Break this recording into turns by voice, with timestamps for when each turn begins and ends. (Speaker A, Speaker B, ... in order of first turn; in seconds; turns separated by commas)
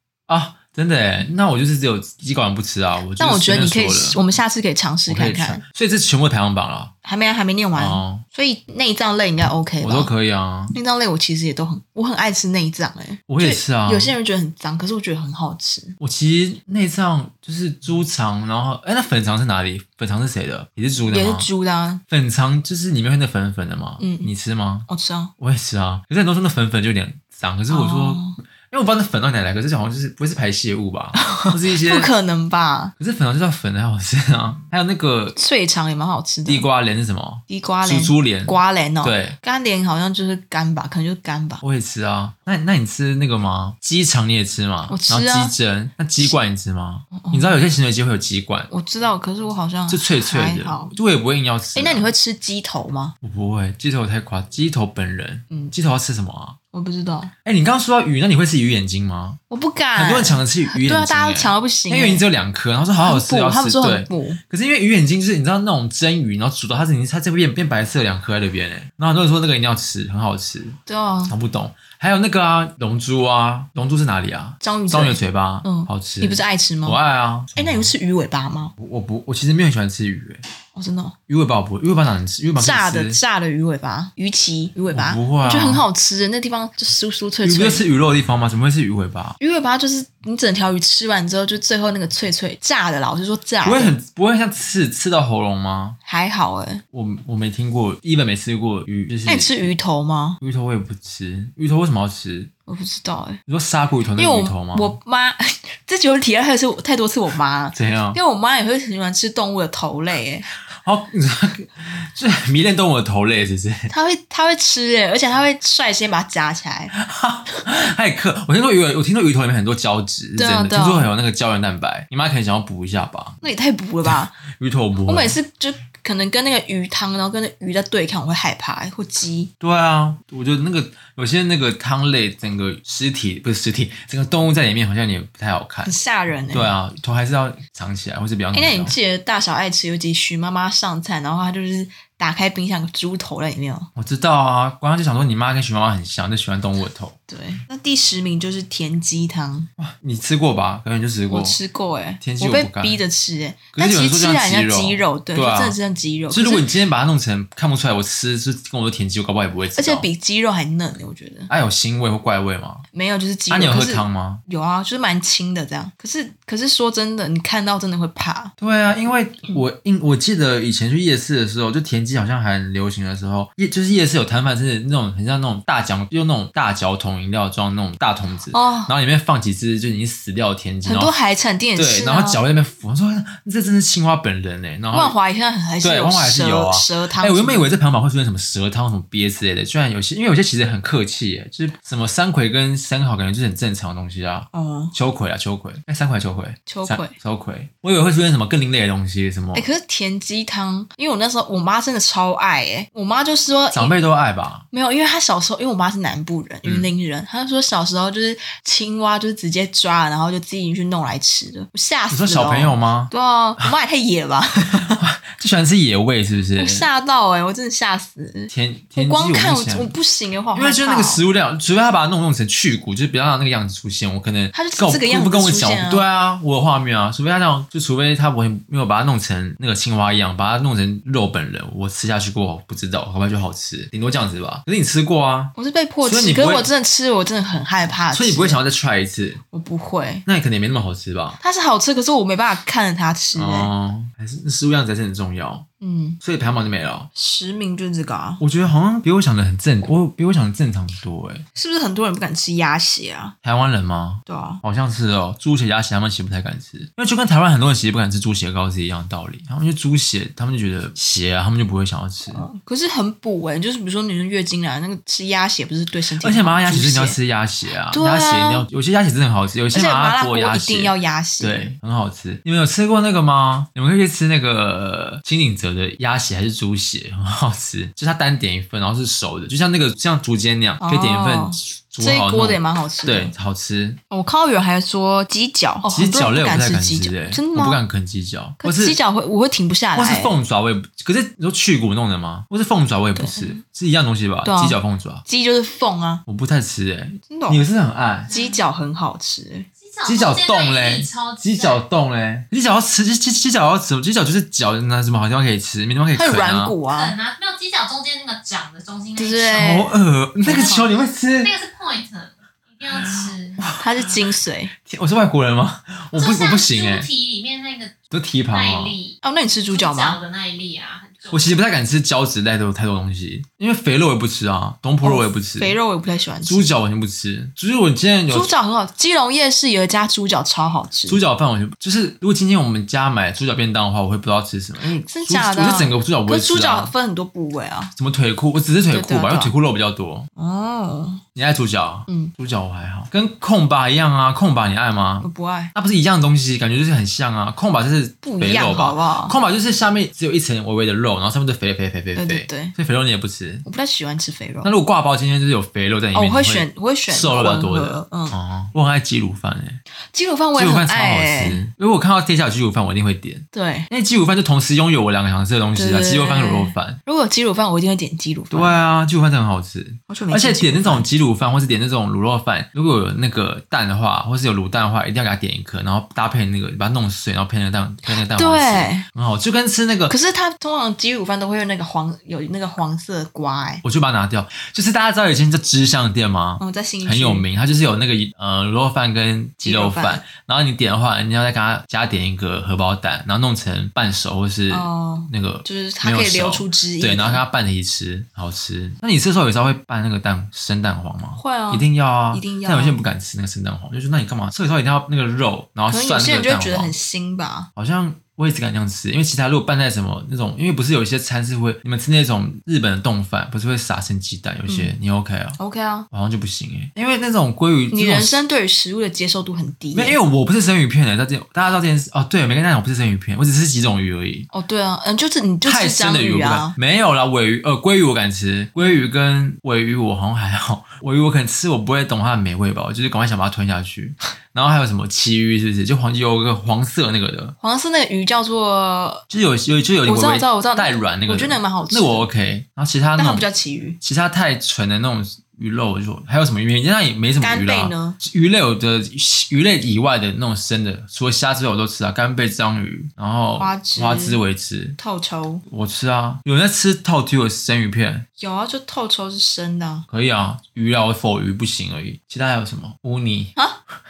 Speaker A: 0.3-4.2, Speaker B: 3.2-5.6, Speaker A: 5.1-6.9, Speaker B: 7.0-10.1, Speaker A: 7.7-8.2, Speaker A: 9.8-10.8, Speaker B: 10.7-15.9, Speaker A: 13.3-14.1, Speaker A: 16.0-21.5, Speaker B: 21.1-22.0, Speaker A: 22.1-24.9, Speaker B: 24.0-24.3, Speaker B: 24.9-25.3, Speaker A: 25.4-32.1, Speaker B: 27.7-28.4, Speaker B: 31.1-32.9, Speaker A: 33.0-35.4, Speaker B: 35.4-36.7, Speaker A: 36.5-39.4, Speaker B: 37.5-41.6, Speaker A: 41.6-48.7, Speaker B: 44.9-45.5, Speaker B: 47.1-47.6, Speaker B: 48.7-50.9, Speaker A: 49.9-52.1, Speaker B: 51.7-53.1, Speaker A: 53.2-56.6, Speaker B: 56.7-57.3, Speaker A: 57.4-59.4, Speaker B: 59.5-62.2, Speaker A: 59.9-70.8, Speaker B: 63.0-64.4, Speaker B: 70.8-71.3, Speaker A: 71.3-77.9, Speaker B: 74.6-77.0, Speaker B: 77.5-78.7, Speaker A: 78.8-80.4, Speaker B: 80.7-81.2, Speaker A: 81.3-83.2, Speaker B: 82.6-87.8, Speaker A: 84.9-85.8, Speaker A: 87.4-89.4, Speaker B: 89.4-94.0, Speaker A: 93.6-96.0, Speaker B: 96.0-96.8, Speaker A: 96.9-99.6, Speaker B: 99.2-100.4, Speaker A: 100.4-102.5, Speaker B: 102.7-103.4, Speaker A: 103.5-105.0, Speaker B: 104.2-110.5, Speaker A: 107.7-108.2, Speaker A: 110.7-113.9, Speaker B: 113.9-116.9, Speaker A: 116.9-123.4, Speaker B: 120.4-121.1, Speaker B: 123.4-124.4, Speaker A: 124.0-125.4, Speaker B: 125.0-129.5, Speaker A: 129.6-135.9, Speaker B: 135.8-136.7, Speaker A: 136.5-138.9, Speaker B: 138.5-143.9, Speaker A: 143.9-147.2, Speaker B: 147.3-149.7, Speaker A: 149.8-151.6, Speaker B: 151.3-156.7, Speaker A: 152.2-153.0, Speaker A: 153.7-155.8, Speaker A: 156.3-160.1, Speaker B: 159.7-161.5, Speaker A: 161.5-162.8, Speaker B: 162.9-168.5, Speaker A: 163.5-164.4, Speaker A: 168.6-181.1, Speaker B: 178.5-178.9, Speaker B: 180.8-182.4, Speaker A: 181.8-185.2, Speaker B: 184.9-187.7, Speaker A: 185.8-199.7, Speaker B: 194.5-194.9, Speaker B: 196.7-197.1, Speaker B: 199.5-203.9, Speaker A: 203.7-204.7, Speaker B: 204.7-215.0, Speaker A: 212.1-213.7, Speaker A: 214.8-216.9, Speaker B: 216.6-221.2, Speaker A: 218.5-219.9, Speaker A: 220.5-236.7, Speaker B: 224.5-226.0, Speaker B: 235.5-238.6, Speaker A: 238.1-239.4, Speaker B: 239.5-240.2, Speaker A: 240.2-241.4, Speaker B: 241.4-243.7, Speaker A: 243.3-245.7, Speaker B: 245.8-246.2, Speaker A: 246.2-247.1, Speaker B: 247.1-248.4, Speaker A: 248.4-251.4, Speaker B: 251.5-253.3, Speaker A: 253.4-262.4, Speaker B: 254.3-254.6, Speaker B: 262.3-267.2, Speaker A: 266.2-284.0, Speaker B: 267.9-268.6, Speaker B: 269.7-271.7, Speaker B: 280.8-283.3, Speaker B: 284.1-287.8, Speaker A: 285.9-289.0, Speaker B: 288.6-290.3, Speaker A: 289.9-295.2, Speaker B: 293.1-293.6, Speaker B: 294.4-296.2, Speaker A: 296.3-298.3, Speaker B: 297.3-297.6, Speaker C: 298.3-298.6, Speaker B: 298.3-299.7, Speaker C: 299.8-301.8, Speaker A: 300.0-306.7, Speaker B: 306.1-307.1, Speaker C: 306.9-309.8, Speaker B: 309.1-309.9, Speaker A: 309.5-311.5, Speaker B: 310.4-310.8, Speaker C: 310.4-313.6, Speaker A: 312.9-314.3, Speaker B: 313.8-314.7, Speaker A: 314.8-317.1, Speaker C: 316.1-319.2, Speaker A: 318.1-318.9, Speaker B: 319.2-320.2, Speaker C: 319.7-321.6, Speaker A: 321.3-325.8, Speaker B: 325.0-326.7, Speaker A: 326.4-328.5, Speaker B: 328.3-331.2, Speaker A: 331.1-336.9, Speaker B: 335.0-337.9, Speaker A: 337.9-340.3, Speaker B: 338.9-339.5, Speaker B: 340.4-341.2, Speaker A: 341.3-353.6, Speaker B: 345.2-345.7, Speaker B: 348.2-349.4, Speaker B: 352.1-352.7, Speaker B: 353.6-354.7, Speaker A: 354.6-359.8, Speaker B: 356.1-358.4, Speaker B: 360.1-361.6, Speaker A: 360.5-367.0, Speaker B: 363.5-363.9, Speaker B: 365.7-368.8, Speaker A: 368.5-380.1, Speaker B: 370.1-371.1, Speaker B: 378.1-379.0, Speaker B: 380.1-383.8, Speaker A: 383.8-406.9, Speaker B: 386.6-387.5, Speaker B: 389.6-390.2, Speaker B: 394.7-397.4, Speaker B: 401.4-403.0, Speaker B: 405.9-407.7, Speaker A: 407.8-415.6, Speaker B: 415.6-416.1, Speaker A: 416.1-418.4, Speaker B: 417.9-420.2, Speaker A: 419.9-424.5, Speaker B: 424.5-426.7, Speaker A: 425.6-437.5, Speaker B: 437.6-439.2, Speaker A: 439.3-443.4, Speaker B: 440.0-442.3, Speaker B: 443.1-444.0, Speaker A: 444.0-455.0, Speaker B: 447.4-448.2, Speaker B: 453.6-454.4, Speaker B: 455.0-455.6, Speaker A: 455.7-458.2, Speaker B: 458.4-460.1, Speaker A: 460.1-463.5